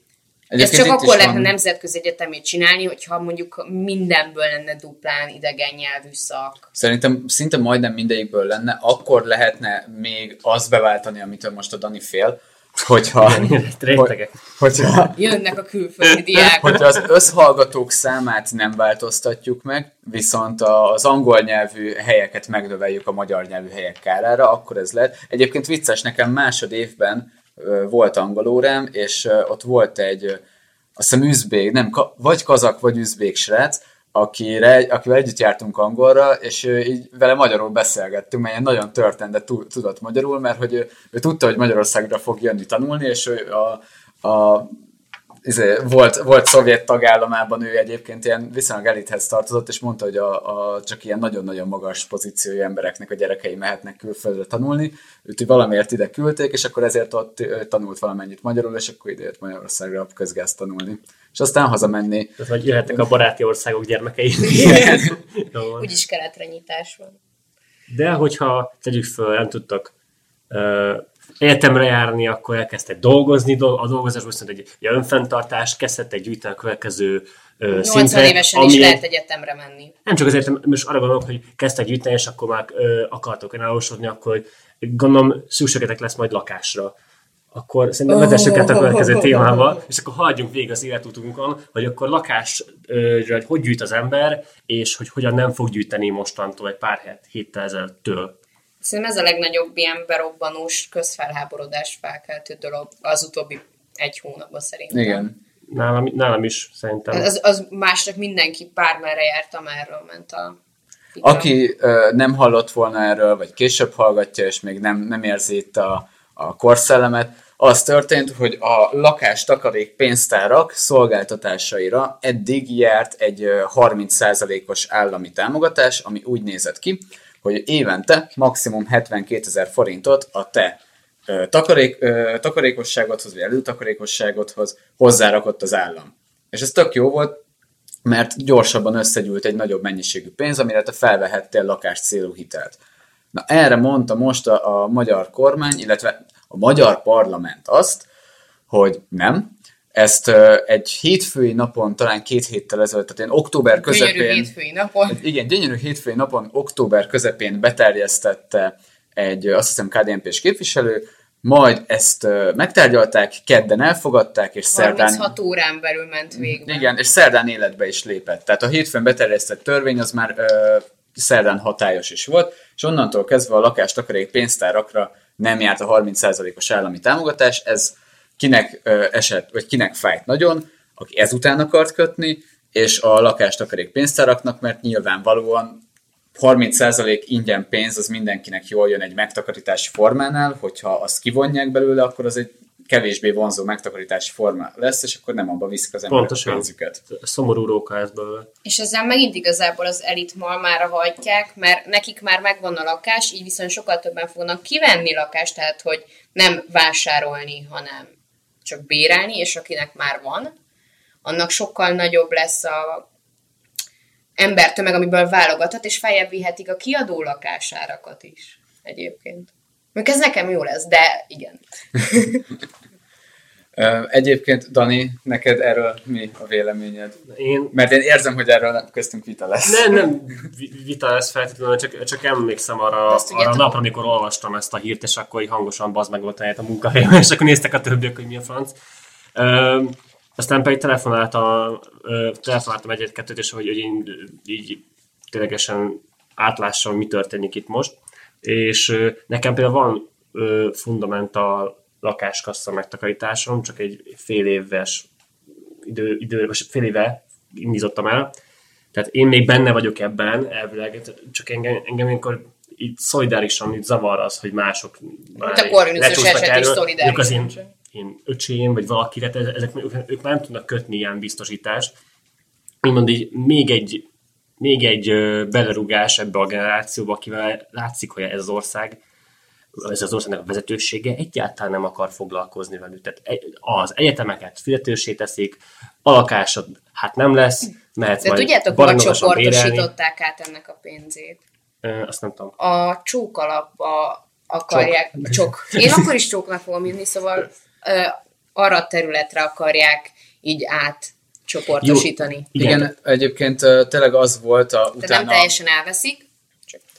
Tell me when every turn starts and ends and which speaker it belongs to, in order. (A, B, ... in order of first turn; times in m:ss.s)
0:00.5-0:01.5 A
0:00.6-0:06.6 B
0:06.7-0:15.1 A
0:13.2-0:14.9 C
0:15.1-0:16.8 B
0:16.4-0:16.6 C
0:16.6-0:30.4 A
0:31.0-0:44.7 A
0:45.4-1:03.0 A
1:02.4-1:05.9 C
1:04.6-1:05.1 A
1:04.6-1:04.9 B
1:05.8-1:07.2 B
1:07.9-1:09.9 C
1:10.5-1:19.0 C
1:17.7-1:19.9 B
1:20.0-1:26.9 C
1:27.5-1:38.4 C
1:28.1-1:29.8 B
1:38.8-1:45.2 B
1:44.9-1:45.4 A
1:45.7-1:47.3 C
1:47.1-1:50.6 B
1:51.2-1:51.5 B
1:51.2-2:17.4 A
2:18.0-2:22.8 A
2:23.3-2:28.0 A
2:28.7-2:34.5 A
2:33.8-2:35.2 B
2:35.1-2:45.2 A
2:44.7-2:46.9 B
2:46.3-3:05.8 A
3:06.3-3:17.0 A
3:16.1-3:18.5 C
3:18.6-3:28.1 B
3:28.6-3:30.5 B
3:31.2-3:33.0 B
3:34.4-3:42.4 B
3:43.8-3:47.2 A
3:47.3-3:47.7 C
3:47.7-3:50.0 A
3:49.6-3:58.7 C
3:53.1-3:53.8 B
3:59.4-4:15.1 C
4:15.8-4:18.3 C
4:18.9-4:31.9 C
4:25.4-4:27.7 B
4:32.8-4:34.0 C
4:34.6-4:39.0 C
4:39.8-4:49.9 C
4:48.2-4:51.4 B
4:51.8-4:52.5 C
4:52.6-5:02.5 B
4:54.7-4:55.9 C
5:01.8-5:02.9 C
5:02.6-5:05.5 A
5:05.0-5:06.8 B